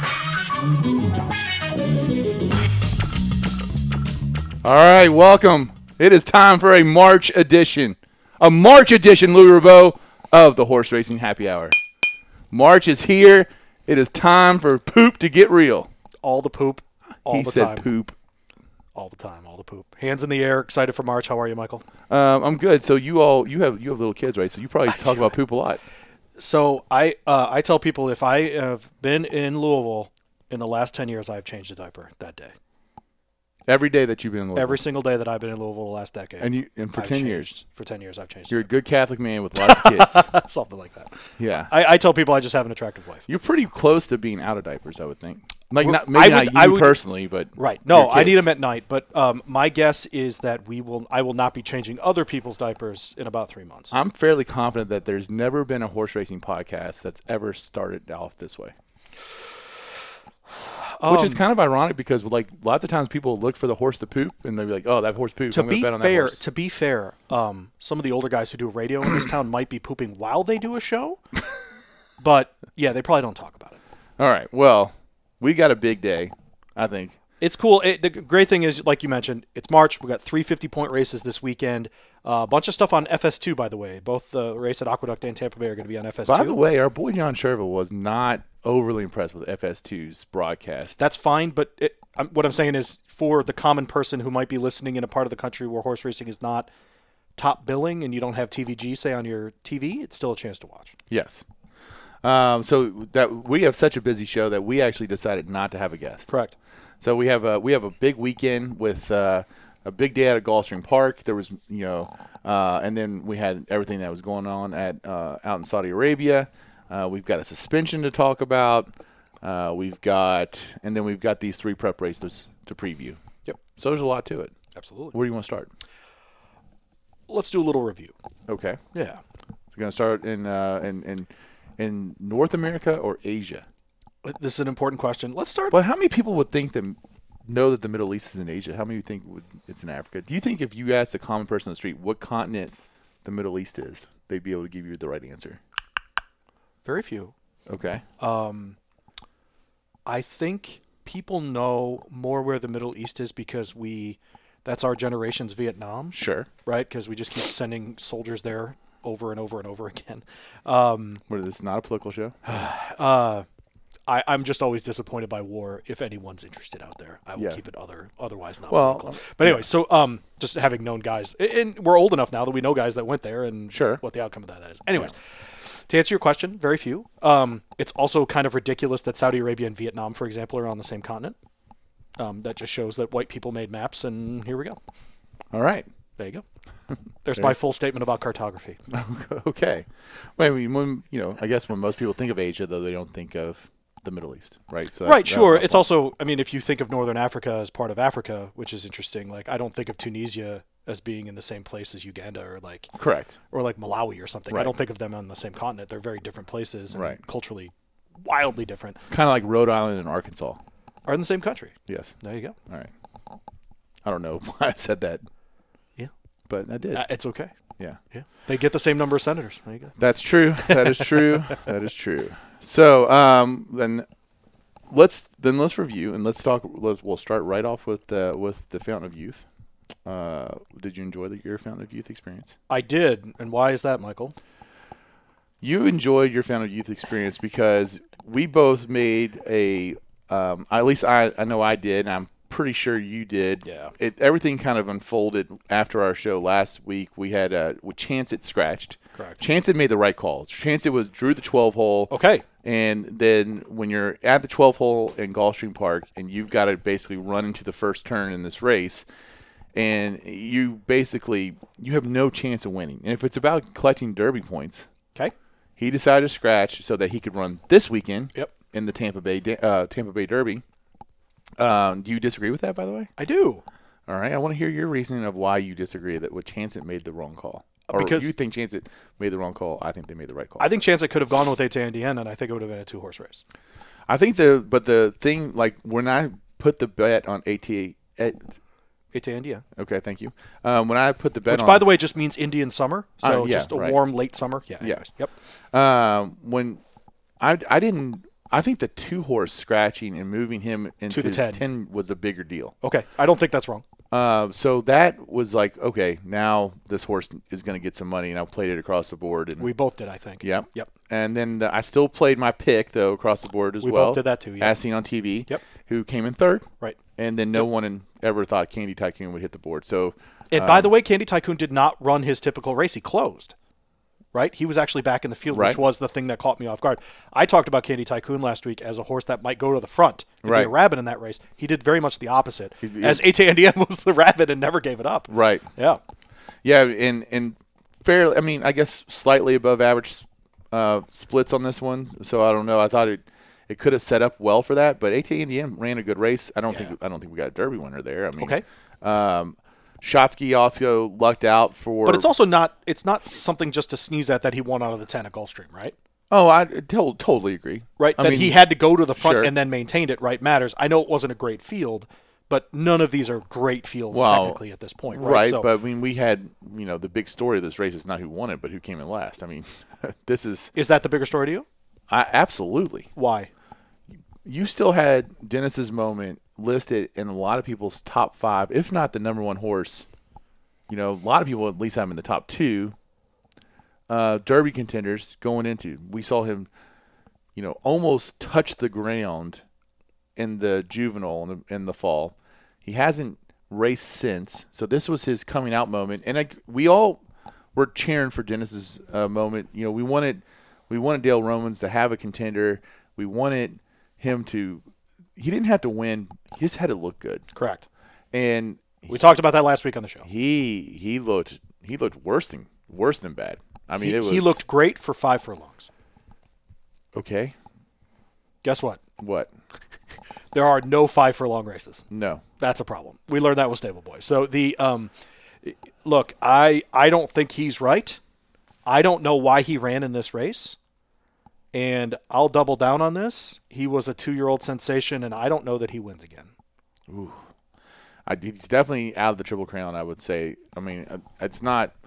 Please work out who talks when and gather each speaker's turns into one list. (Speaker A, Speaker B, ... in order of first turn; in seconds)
Speaker A: 4.6-11.8, 12.5-15.9, 17.3-18.1, 22.1-25.8, 33.7-34.8, 36.4-37.6, 38.5-40.3, 41.4-41.7, 43.3-48.5, 53.9-58.7, 61.0-66.4, 74.2-77.2, 86.3-91.0, 101.1-101.5, 102.2-106.3, 107.0-123.2, 123.8-124.5, 125.1-125.7, 128.5-128.8, 129.7-133.7, 135.7-145.6, 147.7-148.1, 156.1-156.5, 161.3-162.5, 168.7-169.7, 173.7-174.0, 185.5-185.9, 188.9-195.8, 203.0-203.4, 206.9-207.2, 209.1-210.6, 211.9-212.2, 214.0-215.2, 216.5-217.1, 220.0-224.1, 224.9-229.5, 230.1-232.6, 235.6-252.1, 252.6-259.1, 259.7-264.9, 265.8-270.6, 271.6-273.1, 274.1-280.7, 284.1-288.6, 289.8-291.9, 293.2-294.0, 294.8-295.1, 295.7-296.8, 297.4-302.8, 304.1-309.7, 310.4-320.9, 325.5-325.8, 330.4-330.7, 332.8-333.2, 335.3-335.7, 336.6-352.3, 356.3-358.6, 359.2-359.5, 364.1-364.6, 365.1-370.7, 372.1-373.1, 374.4-380.1, 380.9-382.9, 384.1-386.7, 387.6-389.6, 390.4-397.2, 397.8-404.8, 405.4-407.5, 408.3-409.4, 410.2-414.6, 417.1-417.6, 419.2-419.5, 422.1-422.4, 437.1-437.4, 438.3-441.9
Speaker B: 16.2-17.9, 18.9-21.8, 24.9-25.2, 26.4-32.5, 34.5-38.7, 39.6-43.3, 45.8-47.0, 47.6-53.9, 60.8-61.4, 65.5-71.2, 72.2-73.8, 77.4-86.6, 91.0-96.7, 97.4-101.0, 106.3-106.6, 124.8-125.2, 127.3-128.1, 128.9-129.2, 134.2-135.8, 146.8-147.3, 148.2-148.8, 150.1-161.2, 162.5-163.5, 164.1-175.2, 175.8-181.4, 182.2-184.8, 186.2-186.4, 187.2-188.8, 195.0-202.9, 203.5-209.0, 211.1-212.6, 216.9-217.5, 218.1-220.0, 220.6-221.6, 232.7-234.4, 243.6-243.9, 249.2-249.4, 252.1-252.4, 273.2-273.6, 277.9-278.3, 280.6-283.4, 289.1-289.6, 291.5-295.3, 301.1-301.6, 302.8-303.8, 309.6-310.9, 313.8-314.8, 320.5-323.6, 324.3-336.0, 352.1-355.9, 358.0-365.7, 370.8-371.7, 373.1-373.5, 407.6-407.9, 409.1-410.3, 414.0-415.9, 418.6-419.0, 420.5-422.1, 422.6-425.1, 425.6-428.2, 428.9-430.8, 431.7-436.5